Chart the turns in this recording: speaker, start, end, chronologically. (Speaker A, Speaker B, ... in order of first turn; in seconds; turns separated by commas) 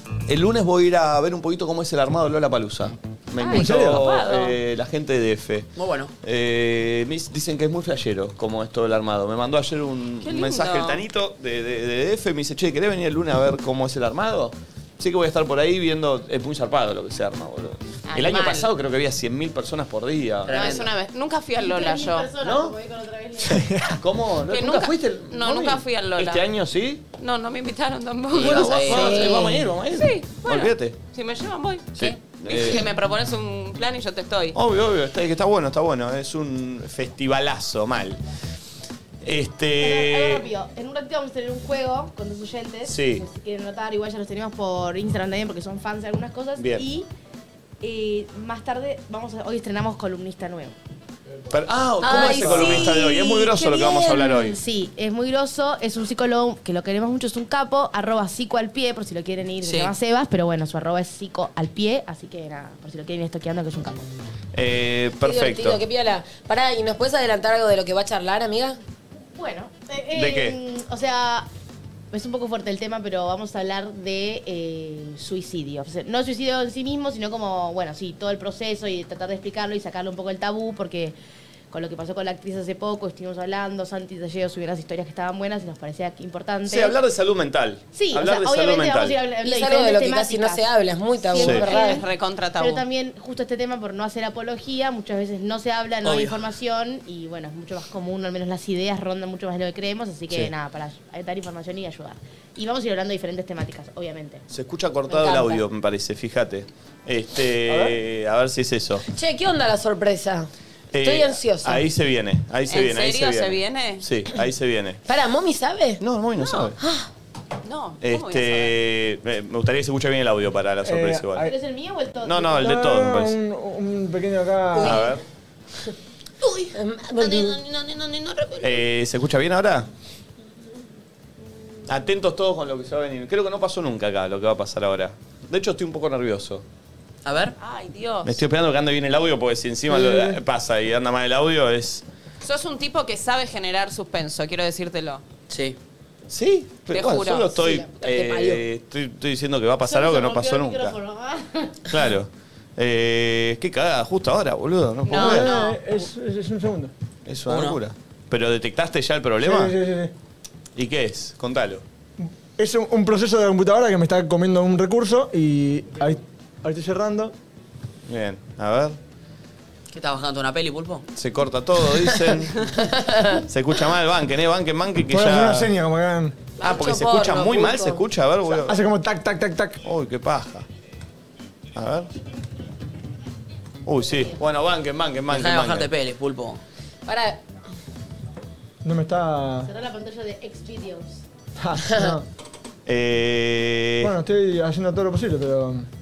Speaker A: 0.3-20.8, Speaker B: 3.4-4.6, Speaker C: 3.5-4.1, Speaker D: 5.8-6.1, Speaker B: 10.2-11.0, Speaker B: 18.1-18.7, Speaker B: 20.5-22.3, Speaker D: 20.5-20.9, Speaker E: 21.6-23.7, Speaker A: 22.4-22.8, Speaker C: 23.4-24.0, Speaker A: 23.9-27.0, Speaker B: 24.5-26.4, Speaker B: 27.2-29.4, Speaker A: 28.3-31.0, Speaker D: 28.4-29.3, Speaker F: 28.8-29.7, Speaker B: 29.9-34.6, Speaker A: 32.0-32.8, Speaker A: 34.5-38.2, Speaker A: 39.2-40.5, Speaker E: 39.8-47.1, Speaker A: 42.9-43.2, Speaker A: 46.6-46.9, Speaker E: 47.8-50.8, Speaker A: 51.5-54.6, Speaker F: 52.0-54.3, Speaker E: 52.0-64.0, Speaker C: 52.2-52.8, Speaker D: 59.6-59.9, Speaker A: 64.5-65.8, Speaker F: 65.2-68.8, Speaker E: 69.3-71.5, Speaker A: 70.1-70.6, Speaker E: 72.1-81.2, Speaker E: 81.7-87.0, Speaker A: 86.6-89.2, Speaker E: 87.9-90.7, Speaker F: 89.4-92.0, Speaker E: 91.2-92.1, Speaker A: 91.4-91.6, Speaker B: 91.6-92.8, Speaker E: 92.6-104.5, Speaker A: 104.5-109.0, Speaker E: 105.1-105.6, Speaker F: 109.1-111.8, Speaker A: 110.9-115.0, Speaker B: 112.7-114.0, Speaker F: 115.1-116.0, Speaker A: 116.0-116.8, Speaker F: 116.8-117.1, Speaker B: 117.7-118.8, Speaker A: 118.0-121.5, Speaker C: 120.8-121.5, Speaker E: 121.4-122.8, Speaker A: 122.2-123.4, Speaker C: 122.6-125.0, Speaker F: 124.8-125.1, Speaker A: 124.8-125.2, Speaker E: 124.8-125.2, Speaker F: 126.7-127.6, Speaker B: 127.2-128.8, Speaker A: 128.6-129.9, Speaker A: 131.9-136.7, Speaker D: 137.2-137.5, Speaker B: 137.6-138.4, Speaker A: 138.2-142.0, Speaker C: 139.9-140.4, Speaker B: 142.4-145.2, Speaker D: 145.5-145.8, Speaker A: 146.3-151.0, Speaker B: 146.9-147.6, Speaker F: 147.6-148.6, Speaker E: 149.9-151.8, Speaker A: 151.9-155.6, Speaker B: 155.1-155.8, Speaker C: 155.1-156.9, Speaker A: 157.2-159.8, Speaker D: 157.5-157.8, Speaker C: 159.4-160.1, Speaker A: 160.8-161.8, Speaker C: 162.2-167.3, Speaker A: 168.1-169.0, Speaker D: 169.9-171.1, Speaker A: 171.2-172.7, Speaker F: 173.0-173.4, Speaker A: 173.5-175.7, Speaker C: 175.1-176.5, Speaker F: 176.6-178.0, Speaker A: 176.6-178.8, Speaker C: 178.7-179.8, Speaker A: 179.8-180.7, Speaker A: 181.8-182.1, Speaker A: 183.9-185.9, Speaker E: 184.1-184.4, Speaker D: 185.3-186.6, Speaker F: 187.1-187.4, Speaker C: 188.8-189.7, Speaker E: 189.6-191.2, Speaker C: 191.6-192.2, Speaker F: 191.9-192.2, Speaker A: 192.9-194.1, Speaker C: 194.0-195.9